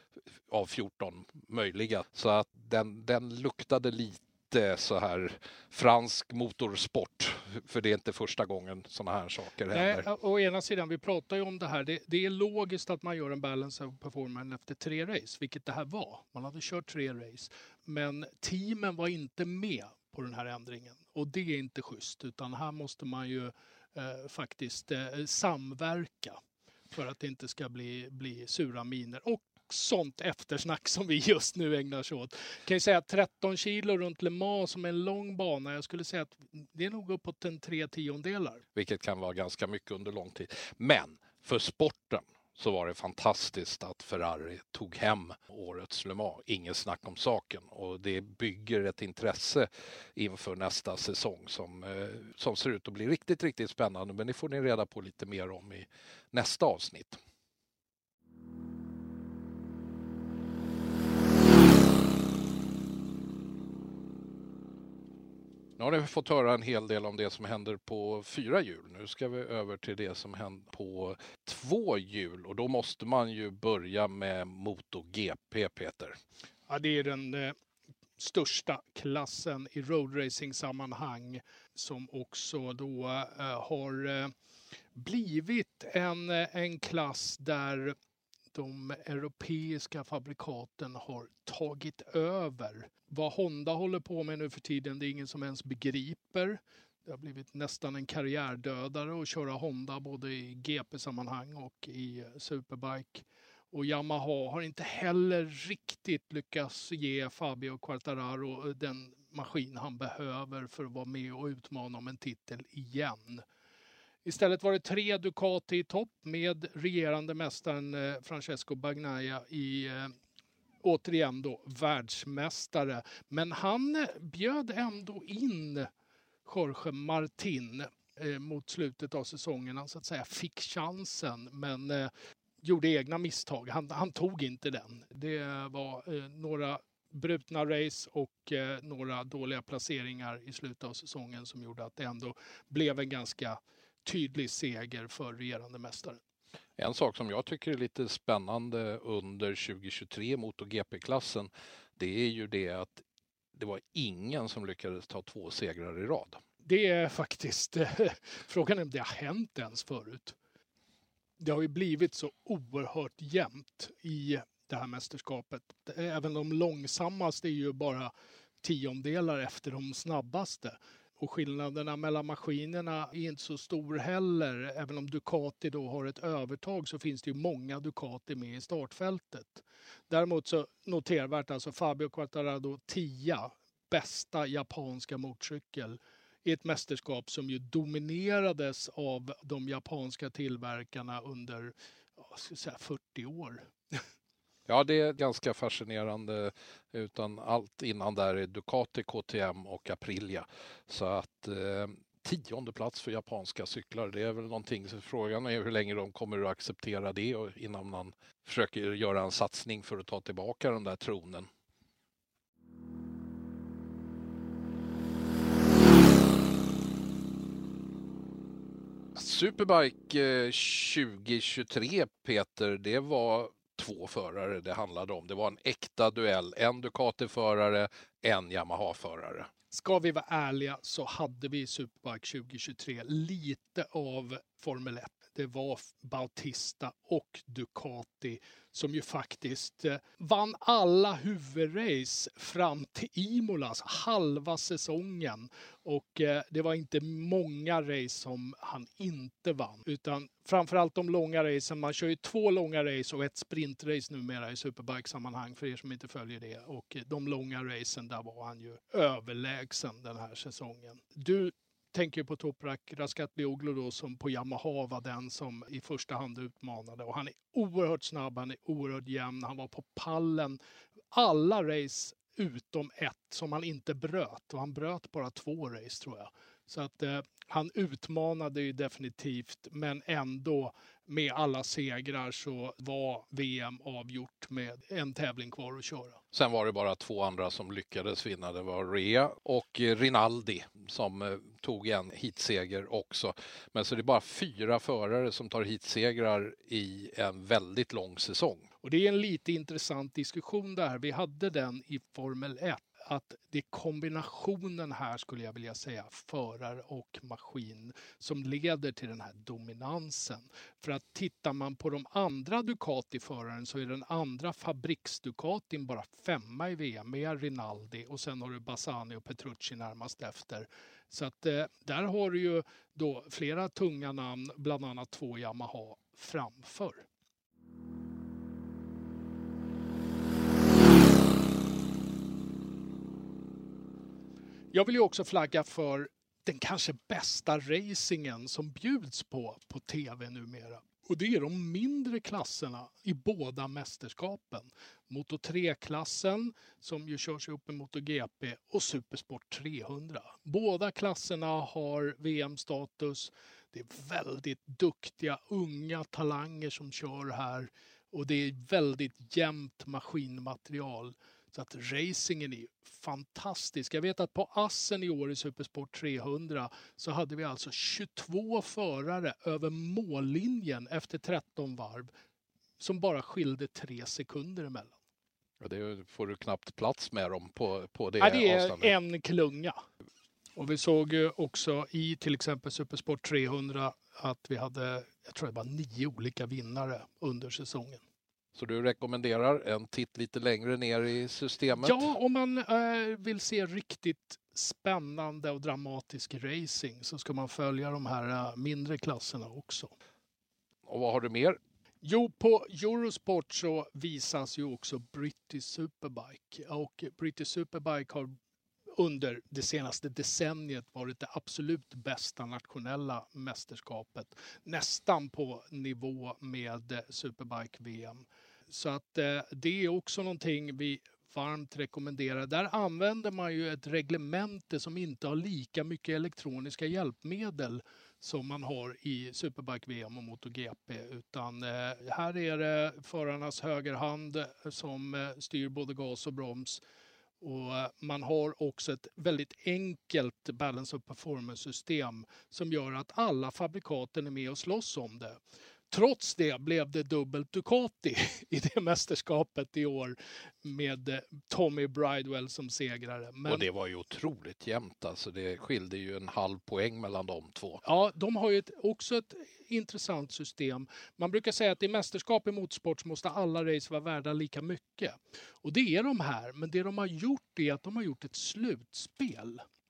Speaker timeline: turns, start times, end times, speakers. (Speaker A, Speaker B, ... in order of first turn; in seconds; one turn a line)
Speaker A: 0.5-10.1
Speaker B: 9.7-26.4
Speaker B: 26.9-38.6
Speaker A: 38.7-57.2
Speaker A: 65.8-76.2
Speaker B: 76.7-77.5
Speaker B: 78.2-84.3
Speaker B: 84.9-87.9
Speaker B: 88.5-113.4
Speaker B: 114.2-120.1
Speaker B: 120.8-125.9
Speaker B: 126.4-132.1
Speaker B: 132.6-146.2
Speaker A: 146.8-153.0
Speaker A: 153.6-156.4
Speaker B: 156.6-160.3
Speaker B: 161.4-168.1
Speaker B: 168.6-194.0
Speaker A: 194.7-211.5
Speaker A: 219.2-229.5
Speaker B: 229.7-270.6
Speaker B: 271.1-286.2
Speaker A: 286.3-298.7
Speaker B: 298.8-327.0
Speaker B: 334.7-372.1
Speaker B: 372.8-375.0
Speaker A: 375.6-378.9
Speaker B: 378.2-379.8
Speaker B: 380.6-388.0
Speaker A: 388.5-392.1
Speaker B: 391.8-399.9
Speaker A: 400.9-401.6
Speaker B: 402.0-408.3
Speaker B: 409.0-436.8
Speaker B: 437.4-445.4
Speaker B: 445.9-453.6
Speaker A: 453.4-457.8
Speaker B: 457.8-469.6